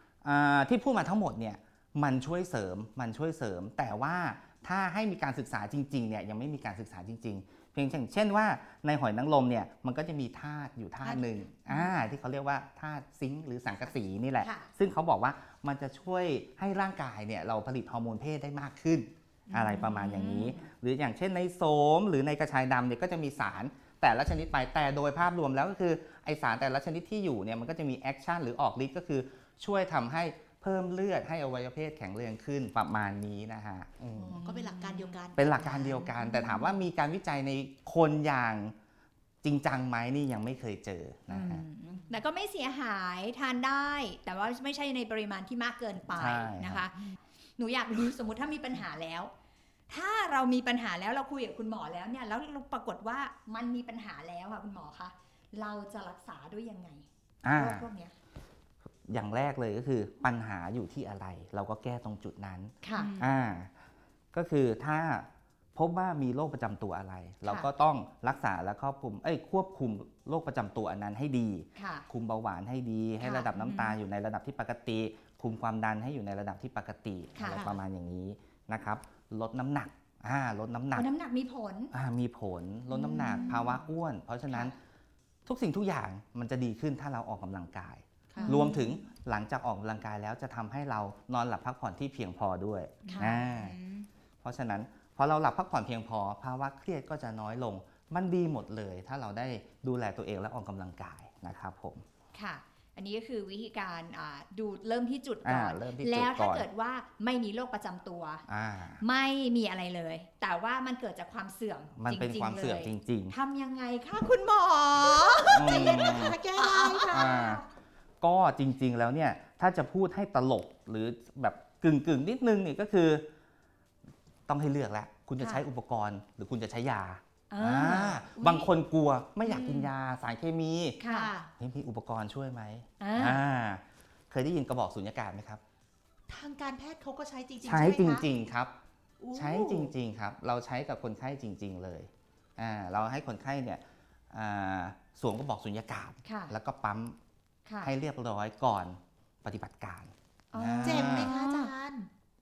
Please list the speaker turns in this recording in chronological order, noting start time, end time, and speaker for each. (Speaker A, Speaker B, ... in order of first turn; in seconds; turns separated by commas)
Speaker A: 0.2-34.4, Speaker B: 11.0-11.9, Speaker C: 14.4-14.7, Speaker B: 19.5-19.9, Speaker C: 19.8-20.7, Speaker C: 34.2-35.1, Speaker B: 34.4-36.7, Speaker A: 35.4-38.8, Speaker A: 39.4-41.6, Speaker C: 41.3-47.0, Speaker A: 46.1-46.9, Speaker C: 47.6-49.3, Speaker C: 49.9-58.1, Speaker A: 57.4-57.9, Speaker A: 59.1-63.7, Speaker C: 62.8-63.1, Speaker B: 63.0-63.3, Speaker A: 64.3-81.1, Speaker C: 71.8-72.1, Speaker C: 73.2-73.8, Speaker C: 77.4-77.7, Speaker B: 77.5-77.8, Speaker C: 81.0-81.9, Speaker A: 81.9-84.8, Speaker B: 82.9-83.8, Speaker A: 85.5-93.8, Speaker B: 88.3-88.8, Speaker C: 88.4-89.0, Speaker B: 93.0-94.1, Speaker C: 93.1-93.4, Speaker A: 94.4-102.0, Speaker C: 102.3-108.5, Speaker A: 105.4-106.7, Speaker A: 108.5-109.0, Speaker C: 109.0-117.7, Speaker A: 112.0-113.3, Speaker B: 115.0-117.5, Speaker A: 115.5-116.4, Speaker A: 117.1-117.6, Speaker A: 118.2-123.2, Speaker A: 124.5-131.0, Speaker C: 127.5-128.2, Speaker C: 129.5-129.9, Speaker C: 131.0-131.3, Speaker B: 131.1-131.5, Speaker A: 131.6-135.6, Speaker C: 133.0-133.4, Speaker B: 136.3-138.3, Speaker A: 137.7-138.7, Speaker B: 139.2-139.9, Speaker A: 139.3-147.2, Speaker C: 146.2-146.5, Speaker A: 147.8-151.3, Speaker C: 150.5-151.7, Speaker B: 150.8-152.1